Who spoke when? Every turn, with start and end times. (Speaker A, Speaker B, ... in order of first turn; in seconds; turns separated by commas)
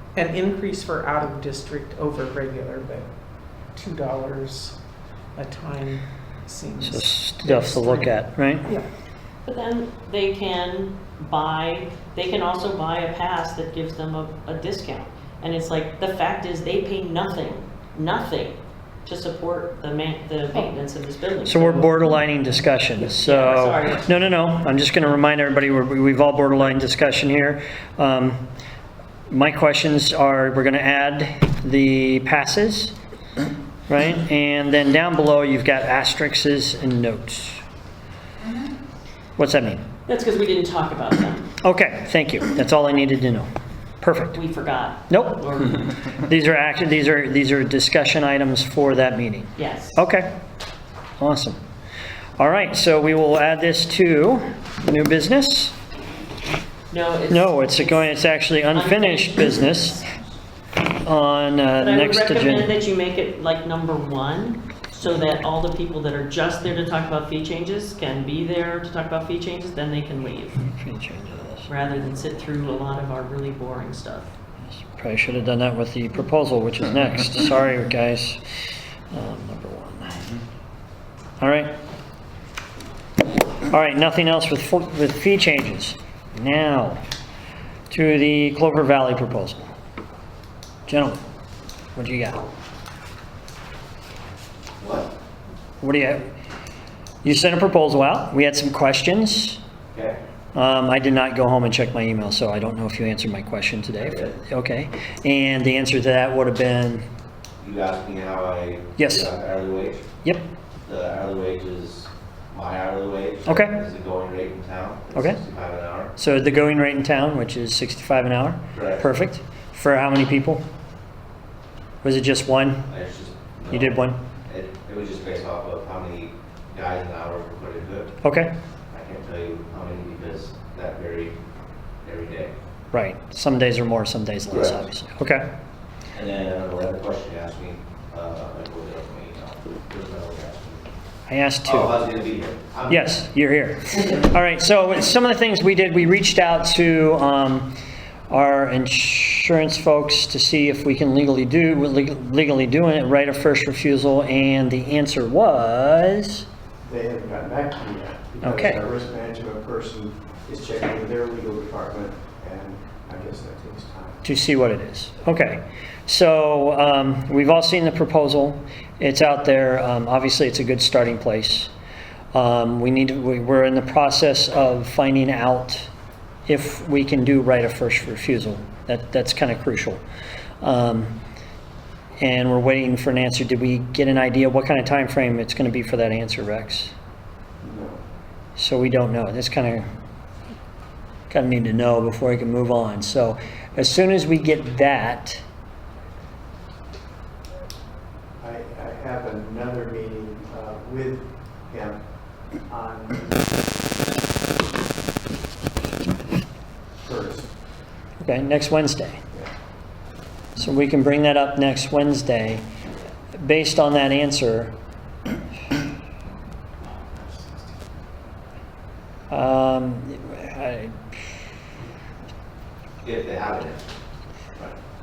Speaker A: 0.1-3.1, Speaker A: 3.7-4.8, Speaker A: 5.3-8.8, Speaker B: 6.8-8.7, Speaker C: 9.4-21.9, Speaker B: 21.4-28.4, Speaker C: 23.0-24.0, Speaker B: 29.3-32.9, Speaker B: 33.9-37.6, Speaker B: 39.4-39.9, Speaker C: 40.1-41.5, Speaker B: 41.6-43.5, Speaker B: 44.0-44.4, Speaker C: 44.3-45.8, Speaker B: 45.1-45.5, Speaker B: 46.2-50.3, Speaker C: 49.5-50.0, Speaker B: 51.2-51.6, Speaker B: 52.4-55.7, Speaker C: 56.9-60.1, Speaker B: 57.3-60.0, Speaker B: 61.0-62.7, Speaker C: 61.8-70.6, Speaker B: 70.6-71.7, Speaker C: 71.7-74.3, Speaker B: 74.7-78.4, Speaker B: 79.1-80.2, Speaker B: 81.4-81.8, Speaker B: 83.7-87.0, Speaker B: 87.9-89.7, Speaker B: 90.9-91.2, Speaker B: 91.9-92.4, Speaker D: 94.8-95.1, Speaker B: 95.8-96.3, Speaker B: 97.2-99.6, Speaker D: 99.9-100.2, Speaker B: 100.5-107.0, Speaker D: 104.0-104.3, Speaker D: 107.6-110.0, Speaker B: 109.0-109.3, Speaker D: 110.8-116.1, Speaker B: 113.4-113.8, Speaker B: 115.1-115.4, Speaker B: 116.2-120.6, Speaker D: 118.7-119.0, Speaker B: 122.0-122.9, Speaker D: 122.8-128.1, Speaker B: 123.7-124.2, Speaker B: 128.2-128.5, Speaker D: 128.9-131.4, Speaker D: 132.0-132.5, Speaker B: 132.9-135.5, Speaker D: 134.5-134.8, Speaker D: 136.1-140.8, Speaker B: 141.3-142.0, Speaker D: 141.6-143.1, Speaker B: 142.9-147.7, Speaker B: 148.3-156.4, Speaker E: 156.8-164.2, Speaker B: 158.4-158.8, Speaker B: 164.2-171.7, Speaker B: 172.3-175.9, Speaker B: 176.5-180.0, Speaker B: 180.6-181.2, Speaker B: 182.2-186.9, Speaker E: 187.6-188.0, Speaker B: 188.6-189.9, Speaker B: 191.3-195.4, Speaker E: 198.4-202.0, Speaker E: 202.7-203.3, Speaker E: 207.0-207.5, Speaker B: 208.2-209.2, Speaker B: 210.6-212.6, Speaker B: 213.4-214.7, Speaker E: 217.2-217.4, Speaker B: 219.3-221.4, Speaker D: 223.0-223.9